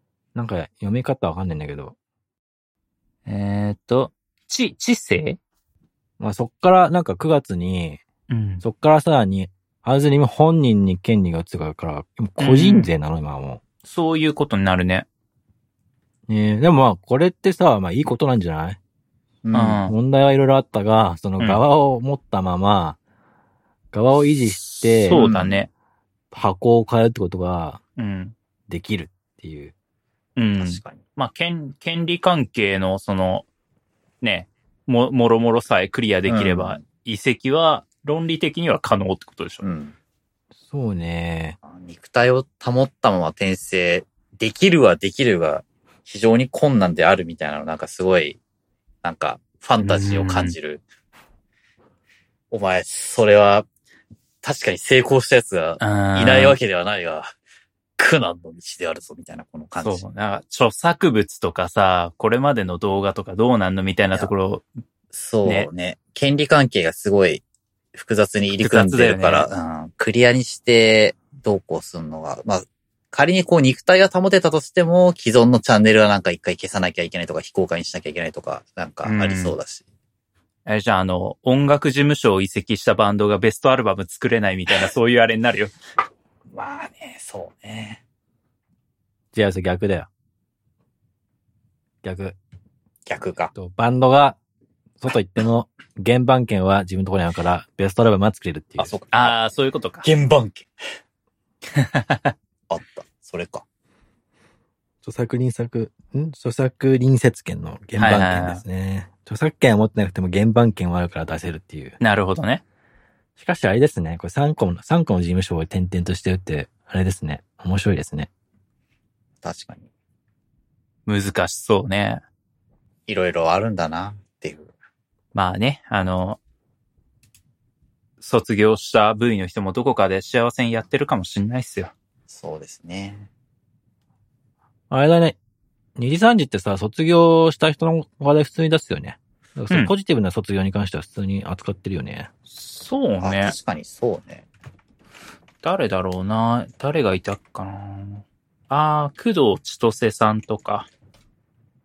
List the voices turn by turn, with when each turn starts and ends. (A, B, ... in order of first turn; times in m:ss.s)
0:00.3-0:02.0 A
0:03.2-0:05.4 B
0:06.2-0:08.0 A
0:08.3-0:08.6 B
0:08.6-0:13.6 A
0:12.4-0:12.9 B
0:13.8-0:15.1 B
0:16.3-0:18.8 A
0:19.4-0:19.8 C
0:19.5-0:19.9 B
0:19.9-0:23.0 A
0:23.9-0:25.2 A
0:24.8-0:25.7 B
0:25.1-0:25.6 C
0:26.3-0:27.8 A
0:28.0-0:28.3 B
0:28.7-0:29.7 A
0:30.4-0:33.4 B
0:30.6-0:31.0 C
0:34.2-0:39.6 B
0:36.3-0:36.8 C
0:39.6-0:39.9 C
0:40.6-0:41.6 A
0:41.6-0:48.4 C
0:49.0-0:50.8 C
0:49.8-0:50.5 B
0:52.5-0:53.7 C
0:54.4-0:57.3 C
0:55.8-0:56.6 B
0:58.0-1:00.0 C
0:59.8-1:04.6 B
1:05.1-1:07.4 C
1:07.9-1:19.8 C
1:08.6-1:09.5 B
1:19.0-1:19.6 B
1:20.6-1:25.7 B
1:26.5-1:28.0 C
1:29.3-1:30.1 A
1:32.0-1:32.4 A
1:33.0-1:33.5 C
1:33.5-1:34.4 A
1:35.0-1:38.9 A
1:38.8-1:39.4 C
1:39.1-1:40.1 B
1:40.0-1:40.7 C
1:41.7-1:42.3 B
1:42.7-1:43.6 C
1:45.0-1:52.0 A
1:48.0-1:48.6 B
1:52.0-1:52.6 B
1:53.4-1:58.3 A
1:59.4-1:59.9 C
2:01.1-2:02.2 B
2:03.1-2:04.7 C
2:05.3-2:06.4 B
2:08.2-2:11.9 B
2:12.3-2:13.3 C
2:14.9-2:15.4 A
2:16.0-2:22.3 A
2:22.5-2:23.6 B
2:23.2-2:24.4 C
2:25.6-2:30.9 B